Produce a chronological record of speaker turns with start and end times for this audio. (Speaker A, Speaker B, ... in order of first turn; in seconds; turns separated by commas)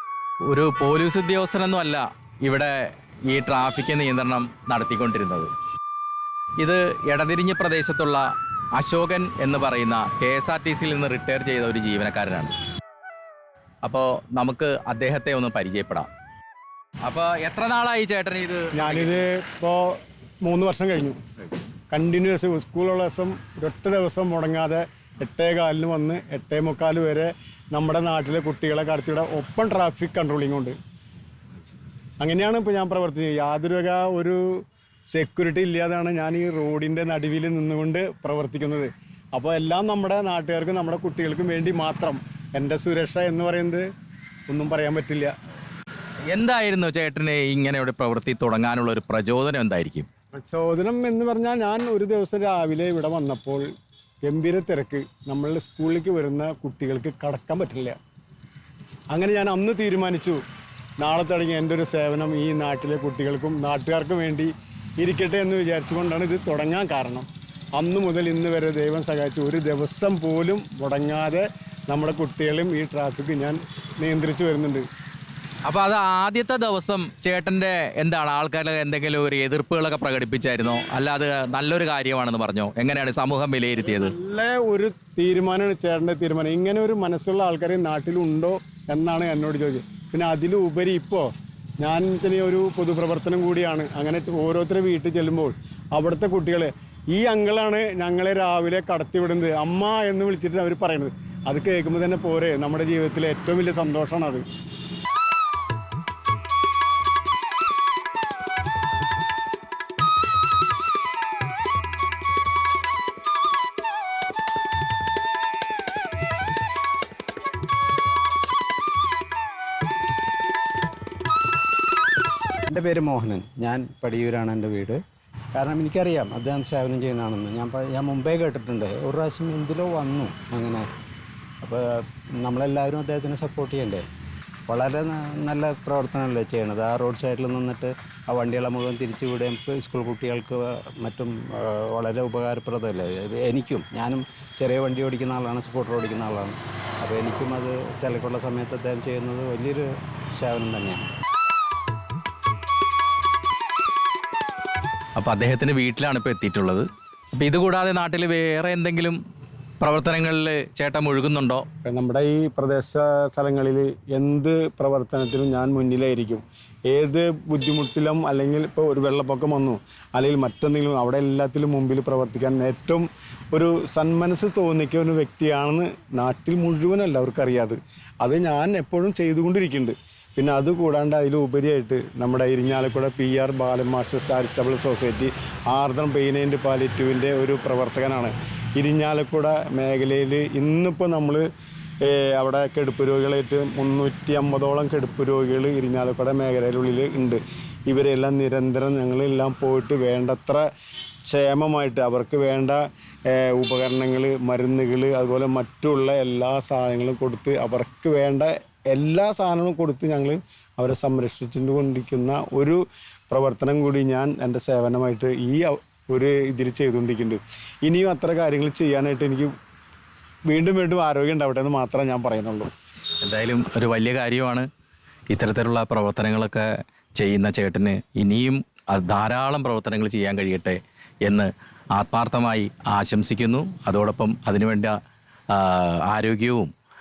Speaker A: 0.5-5.5, Speaker A: 6.6-8.2, Speaker A: 8.7-12.5, Speaker A: 13.8-16.1, Speaker A: 17.0-19.2, Speaker B: 18.7-21.2, Speaker B: 21.9-30.8, Speaker B: 32.2-43.8, Speaker B: 44.5-45.3, Speaker A: 46.3-50.1, Speaker B: 50.4-53.7, Speaker B: 54.2-58.0, Speaker B: 59.1-60.4, Speaker B: 61.0-74.8, Speaker A: 75.6-84.1, Speaker B: 83.8-91.3, Speaker B: 91.8-104.4, Speaker C: 122.7-125.0, Speaker C: 125.5-130.9, Speaker C: 131.6-134.1, Speaker C: 134.7-151.1, Speaker A: 155.2-156.8, Speaker A: 157.3-159.2, Speaker A: 159.8-161.6, Speaker B: 161.8-191.4, Speaker B: 192.0-200.6, Speaker B: 201.2-219.5, Speaker B: 220.5-222.7, Speaker A: 223.2-224.7, Speaker A: 225.3-234.9, Speaker A: 235.5-236.7